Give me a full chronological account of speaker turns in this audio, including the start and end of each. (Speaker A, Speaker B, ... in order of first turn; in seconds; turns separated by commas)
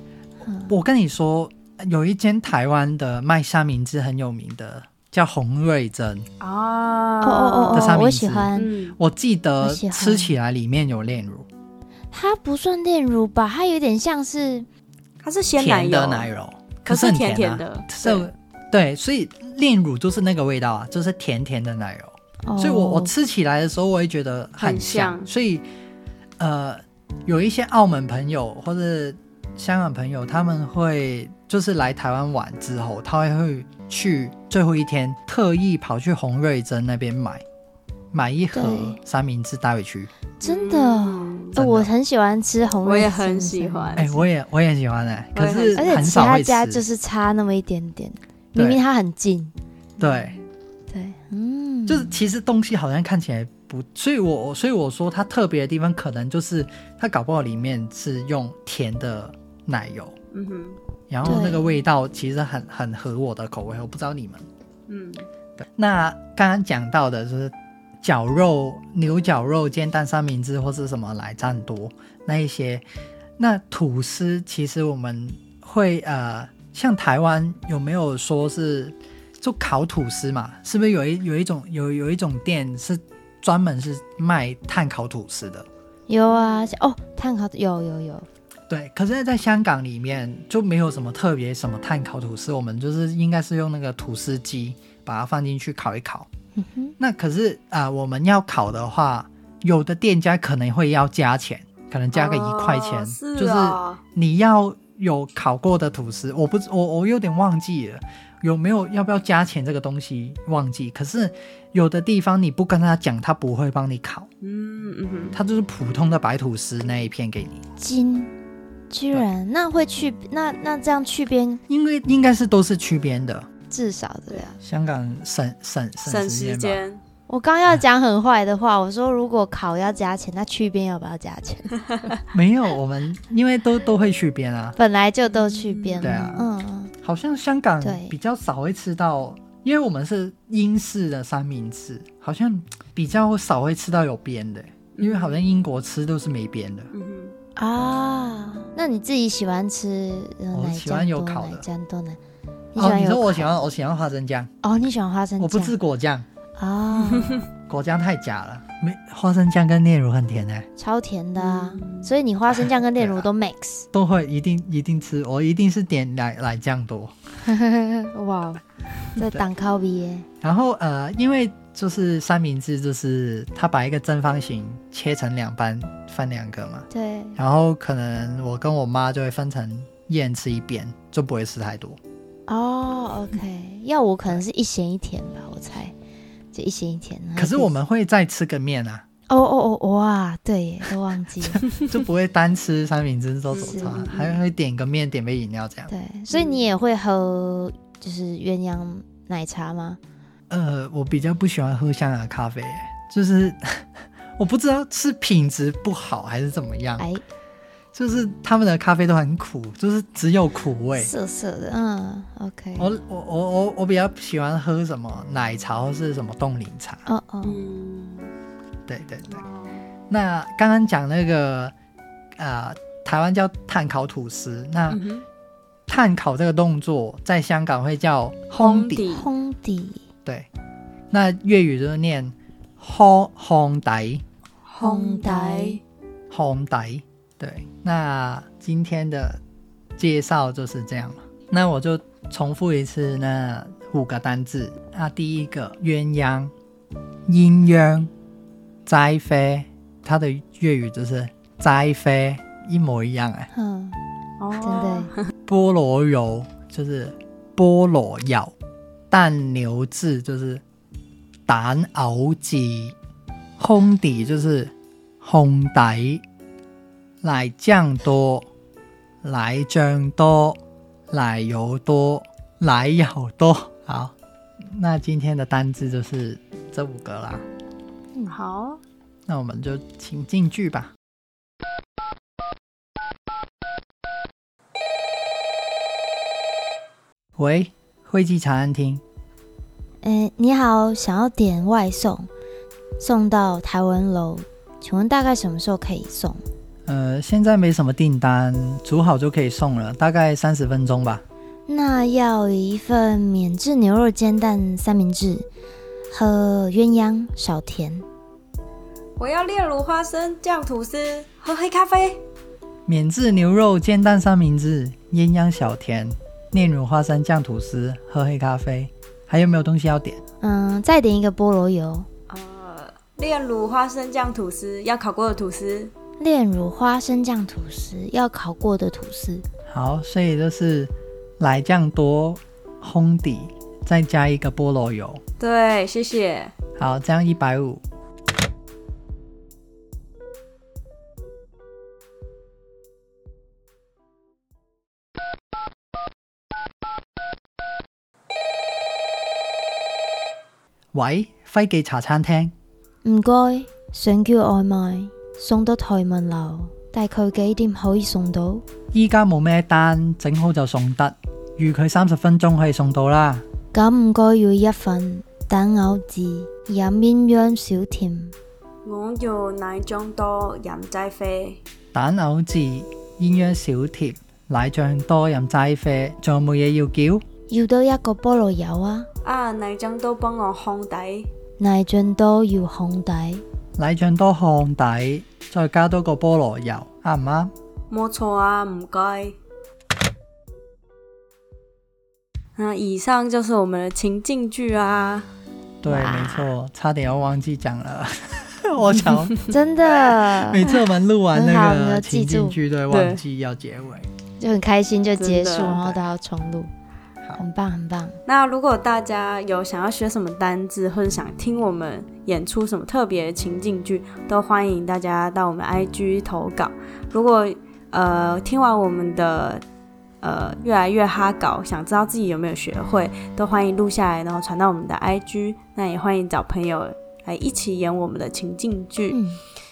Speaker A: 0.4-0.8, Speaker B: 0.7-6.3, Speaker C: 6.4-8.0, Speaker A: 7.2-8.7, Speaker B: 7.7-11.5, Speaker C: 8.6-9.0, Speaker A: 9.6-10.4, Speaker A: 12.1-14.7, Speaker C: 15.2-16.3, Speaker B: 15.6-25.6, Speaker C: 16.9-18.3, Speaker A: 22.4-23.1, Speaker C: 24.6-25.3, Speaker B: 26.4-37.4, Speaker B: 38.1-40.1, Speaker A: 38.5-39.0, Speaker A: 40.4-44.3, Speaker C: 40.4-41.5, Speaker B: 41.6-41.9, Speaker C: 42.8-44.1, Speaker B: 44.0-46.8, Speaker C: 45.4-46.1, Speaker A: 45.7-50.4, Speaker B: 48.5-48.8, Speaker B: 50.0-50.4, Speaker A: 50.9-52.2, Speaker B: 51.9-60.1, Speaker C: 60.3-60.8, Speaker B: 61.1-64.5, Speaker A: 61.2-61.7, Speaker C: 64.9-65.3, Speaker B: 65.6-72.8, Speaker B: 73.4-85.7, Speaker A: 86.1-88.3, Speaker C: 86.3-86.7, Speaker B: 88.7-96.3, Speaker A: 96.6-97.0, Speaker B: 97.0-114.3, Speaker C: 102.1-104.0, Speaker C: 114.4-115.4, Speaker B: 115.3-117.6, Speaker A: 117.8-118.3, Speaker A: 118.9-121.6, Speaker B: 121.7-123.5, Speaker A: 123.7-124.6, Speaker B: 124.6-126.8, Speaker C: 126.0-127.0, Speaker A: 127.3-131.8, Speaker B: 132.3-134.8, Speaker A: 134.8-136.9, Speaker C: 135.2-136.4, Speaker B: 136.0-136.4, Speaker B: 137.0-146.9, Speaker A: 137.8-138.2, Speaker C: 144.9-145.4, Speaker C: 146.9-147.3, Speaker A: 147.6-152.2, Speaker B: 150.5-151.6, Speaker A: 152.8-153.6, Speaker B: 152.8-154.5, Speaker A: 154.6-155.8, Speaker B: 155.4-156.3, Speaker A: 156.6-157.4, Speaker C: 156.9-157.4, Speaker B: 157.7-160.7, Speaker A: 160.8-163.9, Speaker C: 161.4-162.1, Speaker B: 163.0-163.2, Speaker B: 163.9-167.1, Speaker A: 167.4-168.6, Speaker A: 169.2-170.3, Speaker B: 170.4-182.0, Speaker A: 176.9-177.4, Speaker A: 182.5-185.9, Speaker A: 186.5-187.8, Speaker B: 187.4-189.0, Speaker A: 189.3-191.7, Speaker B: 191.7-195.9, Speaker C: 193.5-194.4, Speaker A: 193.7-194.1, Speaker A: 195.9-200.0, Speaker C: 196.3-196.7, Speaker B: 200.5-207.1, Speaker B: 207.9-211.1, Speaker A: 211.0-212.9, Speaker B: 212.8-217.1, Speaker A: 217.1-217.6, Speaker C: 217.4-218.3, Speaker B: 218.9-219.4, Speaker C: 219.3-219.8, Speaker B: 220.1-221.7, Speaker B: 222.4-225.0, Speaker C: 224.9-225.2, Speaker B: 225.9-229.1, Speaker A: 228.6-230.0, Speaker C: 228.6-229.3, Speaker B: 231.1-234.2, Speaker C: 234.7-235.8, Speaker A: 234.8-235.8, Speaker B: 236.3-239.4, Speaker B: 240.0-246.5, Speaker B: 247.3-248.1, Speaker B: 248.9-253.5, Speaker A: 253.5-254.0, Speaker C: 254.4-255.3, Speaker A: 254.6-255.1, Speaker B: 255.5-258.5, Speaker B: 259.1-260.6, Speaker B: 261.5-262.9, Speaker B: 263.6-266.2, Speaker B: 267.2-268.5, Speaker B: 269.2-270.6, Speaker B: 271.1-277.4, Speaker C: 278.3-278.8, Speaker B: 279.3-280.9, Speaker B: 287.4-289.0, Speaker A: 290.0-292.3, Speaker A: 293.0-296.4, Speaker B: 296.9-301.2, Speaker A: 301.7-305.5, Speaker A: 306.1-308.1, Speaker C: 309.2-312.2, Speaker B: 312.9-320.2, Speaker A: 320.4-322.1, Speaker C: 322.3-325.9, Speaker A: 326.2-329.4, Speaker B: 329.7-335.2, Speaker C: 335.4-336.5, Speaker B: 336.8-337.8, Speaker B: 350.9-352.5, Speaker A: 353.0-358.6, Speaker B: 358.9-363.4, Speaker A: 363.7-368.4, Speaker C: 368.8-371.6, Speaker B: 371.9-377.2, Speaker A: 377.5-379.1, Speaker C: 379.2-381.3, Speaker A: 381.6-383.4, Speaker B: 383.8-387.5, Speaker C: 387.9-389.4, Speaker C: 392.6-395.3, Speaker B: 395.8-399.4, Speaker A: 395.9-396.5, Speaker A: 399.4-400.6, Speaker B: 400.4-404.1, Speaker A: 401.3-402.6, Speaker C: 402.9-403.2, Speaker A: 404.4-406.7, Speaker C: 405.2-406.0, Speaker A: 407.4-408.2, Speaker C: 408.3-419.6, Speaker C: 420.2-429.2, Speaker A: 429.1-429.4